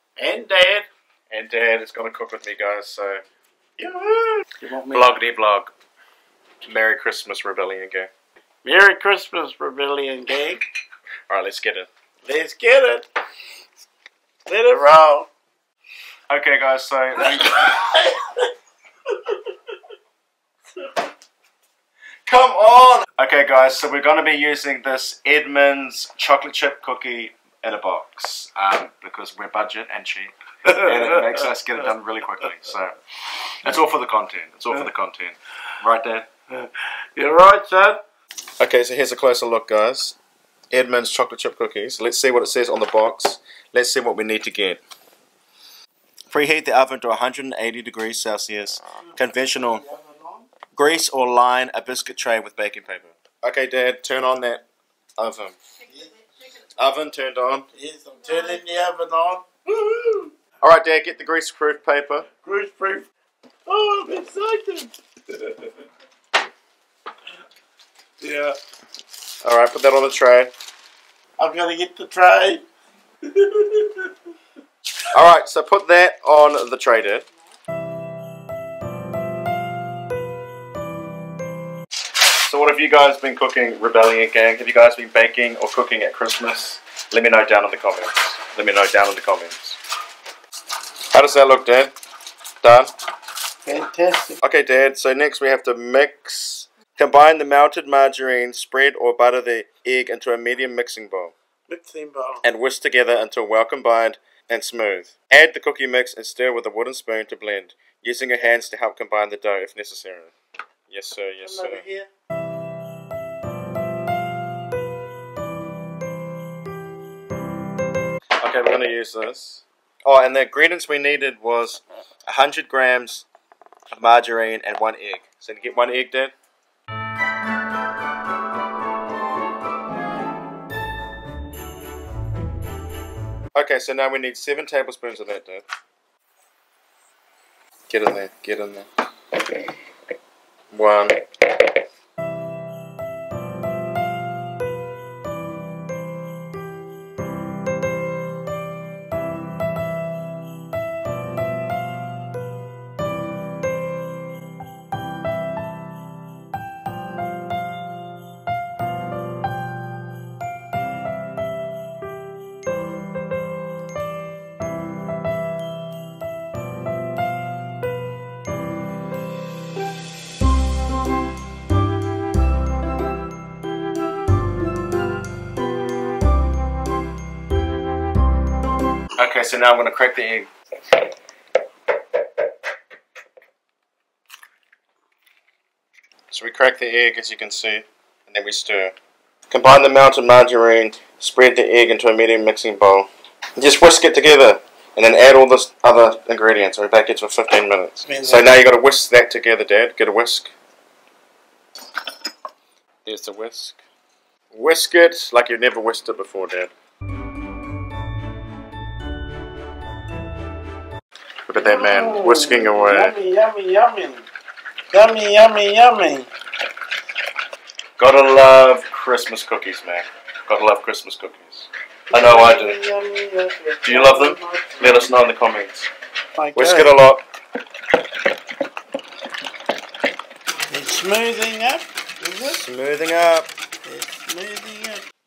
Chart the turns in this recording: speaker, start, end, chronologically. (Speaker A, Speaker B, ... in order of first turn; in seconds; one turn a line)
Speaker A: 0.2-0.9
Speaker B: 1.3-3.2
Speaker A: 3.8-5.2
Speaker B: 4.9-5.7
Speaker B: 6.6-8.1
Speaker A: 8.6-10.6
Speaker B: 11.3-11.9
Speaker A: 12.2-13.1
Speaker A: 14.5-15.3
Speaker B: 16.3-17.9
Speaker A: 17.6-18.4
Speaker B: 22.2-36.3
Speaker A: 36.5-38.0
Speaker B: 38.6-40.1
Speaker B: 40.7-44.8
Speaker B: 46.3-49.8
Speaker A: 49.6-50.5
Speaker B: 50.7-54.6
Speaker B: 55.2-55.5
Speaker B: 56.8-57.7
Speaker A: 57.7-60.3
Speaker B: 60.6-62.3
Speaker A: 62.4-63.1
Speaker A: 63.7-65.7
Speaker A: 68.2-68.6
Speaker B: 69.4-70.5
Speaker A: 71.4-72.7
Speaker A: 73.3-74.1
Speaker B: 75.1-77.2
Speaker B: 82.3-89.8
Speaker B: 91.1-91.9
Speaker B: 92.6-92.9
Speaker A: 93.7-94.4
Speaker B: 94.4-101.3
Speaker A: 101.7-102.5
Speaker B: 102.4-110.3
Speaker B: 110.9-111.8
Speaker A: 111.4-112.1
Speaker B: 118.4-123.2
Speaker B: 123.9-126.3
Speaker B: 133.6-135.7
Speaker B: 137.9-138.9
Speaker B: 140.7-141.8
Speaker B: 179.2-180.5
Speaker B: 186.3-188.9
Speaker B: 189.5-200.5
Speaker A: 198.1-198.5
Speaker B: 203.1-203.8
Speaker B: 204.5-206.7
Speaker B: 211.5-213.2
Speaker A: 211.6-214.3
Speaker A: 214.9-216.3
Speaker B: 218.0-222.8
Speaker A: 222.1-224.9
Speaker B: 223.8-225.9
Speaker A: 226.4-226.9
Speaker B: 226.5-227.2
Speaker A: 230.7-232.6
Speaker B: 232.4-233.5
Speaker A: 233.8-235.0